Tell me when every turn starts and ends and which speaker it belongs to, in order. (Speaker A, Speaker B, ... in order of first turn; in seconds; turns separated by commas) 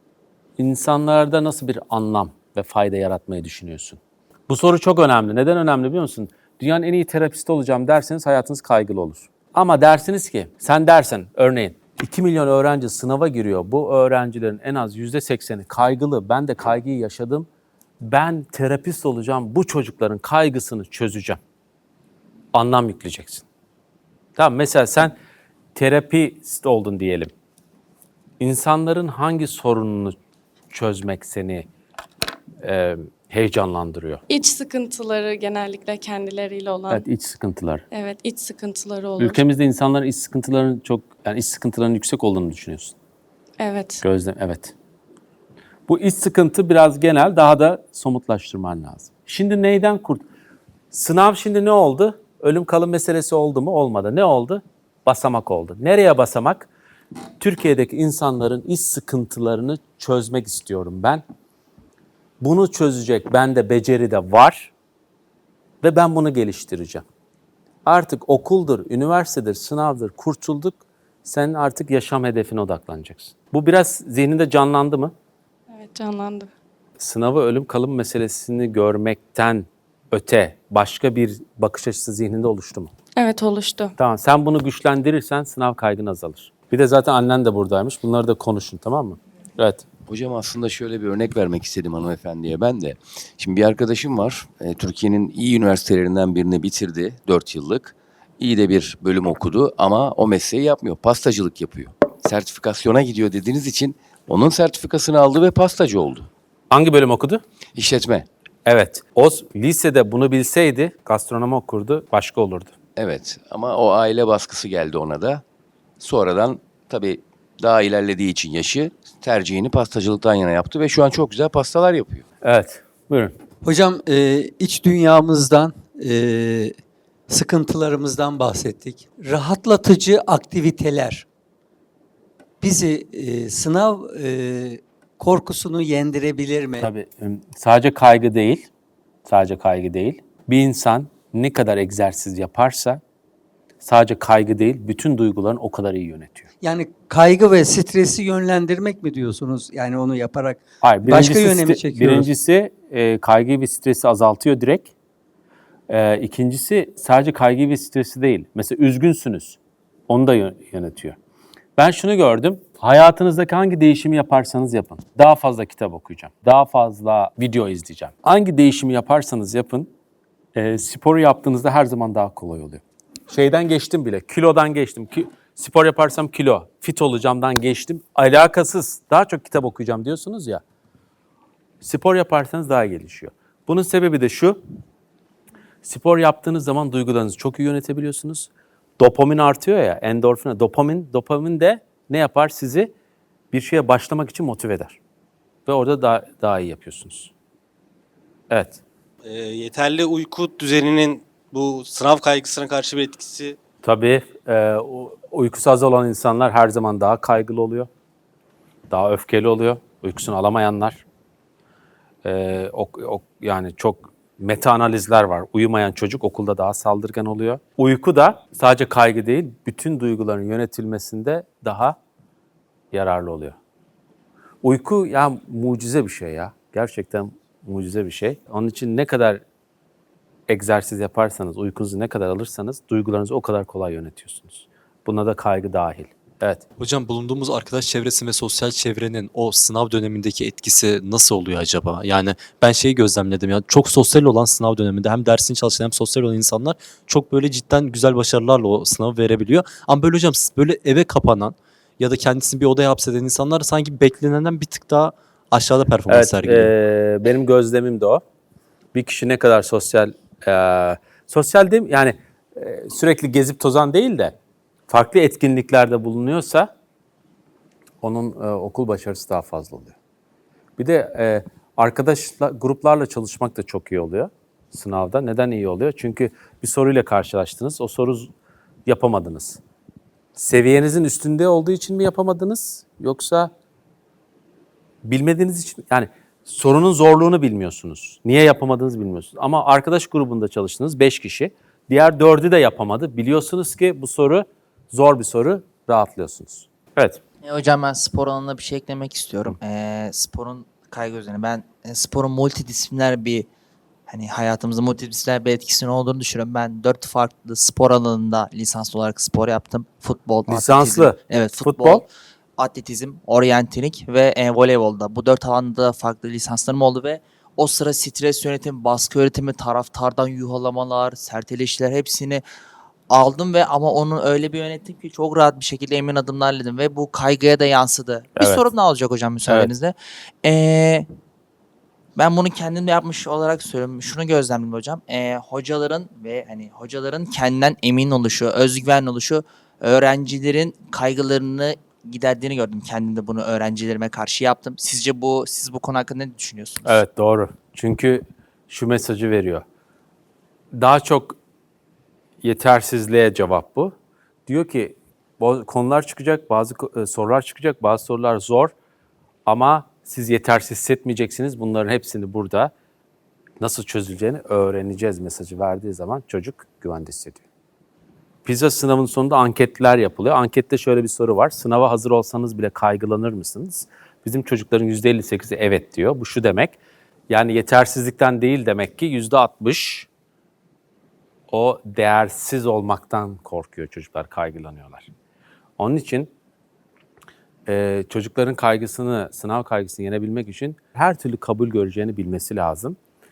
Speaker A: 0.6-17.5, Speaker A: 18.0-21.4, Speaker A: 22.5-23.4, Speaker A: 24.4-25.1, Speaker A: 25.7-27.3, Speaker A: 28.4-30.1, Speaker A: 30.7-31.6, Speaker A: 32.6-34.2, Speaker B: 34.3-37.0, Speaker A: 36.9-37.8, Speaker B: 37.9-39.4, Speaker A: 39.2-42.9, Speaker B: 43.6-44.0, Speaker A: 44.0-44.7, Speaker A: 45.9-50.2, Speaker A: 50.9-56.7, Speaker A: 57.4-61.2, Speaker A: 62.4-64.7, Speaker A: 65.8-67.0, Speaker A: 67.8-75.1, Speaker B: 75.7-76.5, Speaker A: 77.0-82.9, Speaker B: 83.2-83.9, Speaker A: 84.0-89.8, Speaker C: 90.1-106.3, Speaker A: 106.7-107.4, Speaker C: 107.8-108.2, Speaker A: 108.7-112.7, Speaker C: 113.0-115.4, Speaker C: 116.0-122.2, Speaker A: 122.4-123.3, Speaker D: 123.6-126.7, Speaker D: 127.3-131.2, Speaker D: 132.6-136.9, Speaker A: 136.8-138.6, Speaker A: 139.2-143.0, Speaker A: 143.8-146.5, Speaker D: 146.6-152.3, Speaker A: 150.8-154.9, Speaker A: 155.9-159.6, Speaker A: 160.1-161.2, Speaker A: 161.8-169.9, Speaker A: 170.5-180.6, Speaker A: 181.8-184.6, Speaker A: 185.8-192.9, Speaker A: 193.5-195.0, Speaker A: 195.7-197.3, Speaker A: 198.5-198.8, Speaker E: 199.2-203.5, Speaker F: 201.4-202.7, Speaker A: 203.8-207.9, Speaker A: 208.9-211.0, Speaker A: 212.2-221.9, Speaker A: 222.9-223.6, Speaker A: 224.6-229.4, Speaker A: 230.5-236.6, Speaker F: 236.8-256.7, Speaker A: 256.1-258.2, Speaker A: 258.9-264.3, Speaker A: 264.9-266.7, Speaker A: 268.0-269.9, Speaker A: 270.8-278.3, Speaker A: 278.9-279.6, Speaker A: 280.4-283.5, Speaker A: 285.0-297.2, Speaker G: 297.4-303.4, Speaker G: 304.1-312.1, Speaker A: 310.5-312.0, Speaker G: 312.6-322.4, Speaker G: 323.1-331.1, Speaker A: 328.4-328.6, Speaker G: 332.1-347.0, Speaker A: 346.9-349.6, Speaker A: 350.7-351.3, Speaker A: 352.4-353.9, Speaker A: 354.4-358.7, Speaker A: 359.4-362.7, Speaker A: 363.6-367.4, Speaker A: 368.4-376.8, Speaker A: 377.3-380.1, Speaker A: 381.5-385.1, Speaker A: 385.8-386.3, Speaker A: 387.7-393.0